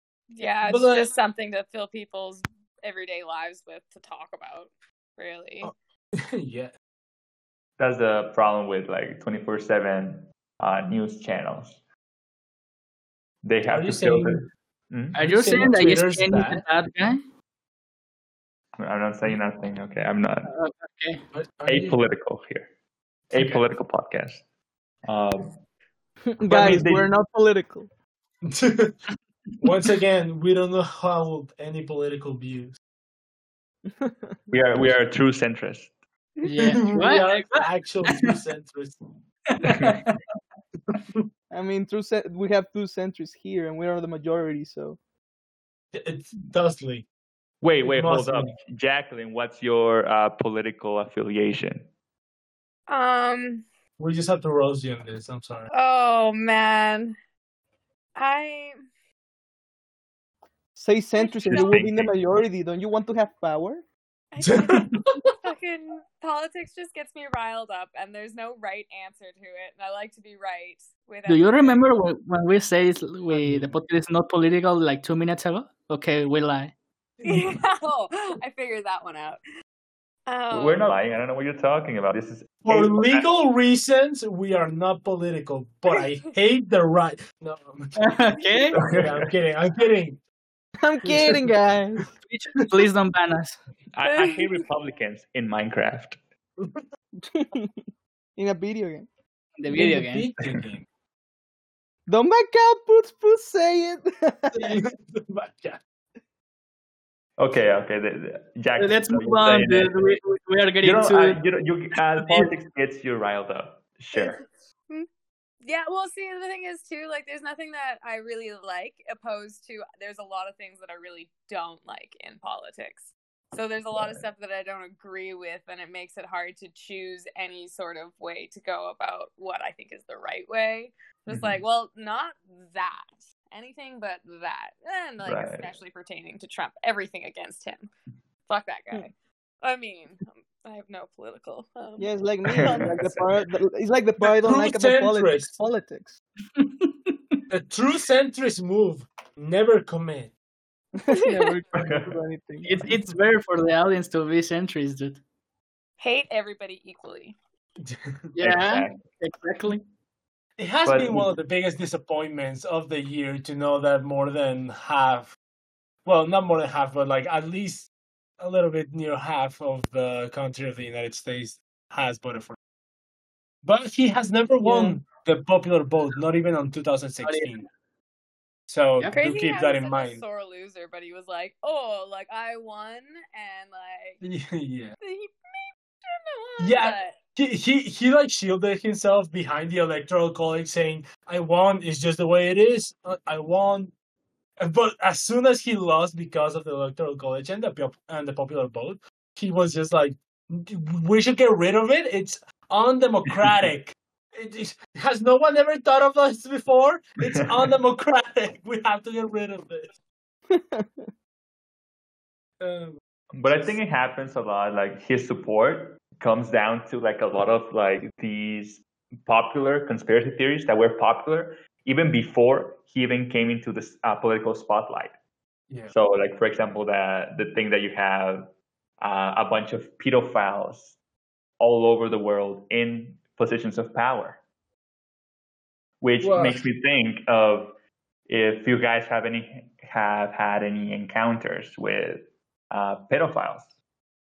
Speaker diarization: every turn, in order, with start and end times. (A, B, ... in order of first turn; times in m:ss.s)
0:00.3-0:05.7 A
0:00.6-0:01.1 B
0:05.6-0:06.7 B
0:07.8-0:11.8 C
0:13.4-0:15.2 C
0:13.6-0:14.4 B
0:15.1-0:17.2 D
0:15.2-0:16.6 B
0:18.8-0:20.5 C
0:20.4-0:21.2 D
0:21.3-0:22.0 B
0:21.6-0:22.7 C
0:23.3-0:24.4 C
0:25.0-0:25.6 C
0:26.3-0:27.9 E
0:26.4-0:27.1 C
0:28.4-0:29.0 B
0:29.6-0:32.8 B
0:33.9-0:34.4 E
0:34.5-0:35.9 C
0:36.4-0:38.3 D
0:36.6-0:39.0 B
0:39.5-0:40.2 D
0:39.6-0:40.0 C
0:40.9-0:41.2 B
0:41.5-0:45.0 E
0:45.9-0:47.1 B
0:47.6-0:51.9 C
0:47.8-0:48.5 B
0:52.9-0:53.6 A
0:54.0-0:55.7 B
0:55.7-0:57.2 A
0:58.2-0:58.8 A
1:00.8-1:03.8 E
1:01.2-1:01.8 A
1:01.5-1:02.1 C
1:04.3-1:11.8 A
1:04.4-1:05.1 B
1:11.3-1:16.7 D
1:13.3-1:13.8 B
1:17.2-1:19.4 A
1:20.3-1:20.9 A
1:20.5-1:23.3 C
1:22.6-1:28.1 B
1:28.0-1:28.8 D
1:28.7-1:30.2 B
1:28.8-1:29.2 C
1:30.8-1:32.1 E
1:31.0-1:31.5 B
1:32.2-1:33.6 D
1:33.9-1:36.2 C
1:34.0-1:34.6 A
1:37.2-1:37.8 E
1:38.4-1:39.1 E
1:39.6-1:40.3 D
1:39.7-1:40.8 B
1:42.1-1:44.8 E
1:44.5-1:45.8 B
1:47.4-1:50.0 C
1:48.8-1:51.4 D
1:50.8-1:54.4 C
1:52.2-1:52.5 D
1:54.1-1:55.1 A
1:55.6-2:17.9 A
2:03.9-2:04.2 C
2:11.3-2:11.6 C
2:15.2-2:15.8 C
2:18.4-2:22.9 A
2:22.0-2:26.2 E
2:22.6-2:23.4 C
2:24.2-2:25.5 B
2:26.6-2:27.4 D
2:27.5-2:30.3 B
2:31.0-2:32.7 E
2:31.1-2:31.6 A
2:31.7-2:32.1 C
2:32.6-2:35.2 D
2:36.0-2:37.4 A
2:37.8-2:38.2 B
2:38.3-2:39.8 D
2:38.4-2:39.0 C
2:40.6-2:45.3 B
2:40.8-2:41.3 C
2:46.0-2:52.6 B
2:53.6-2:57.7 B
2:54.6-2:55.0 E
2:57.2-2:57.5 D
2:58.7-3:00.2 B
2:59.1-3:04.2 A
3:04.2-3:05.0 B
3:05.0-3:07.2 A
3:06.6-3:13.9 B
3:14.6-3:29.9 B
3:30.5-3:31.1 E
3:32.6-3:33.8 B
3:33.3-3:45.2 C
3:45.9-3:51.0 C
3:51.6-3:54.4 C
3:56.0-3:57.7 C
3:56.2-3:56.6 B
3:58.3-4:03.7 C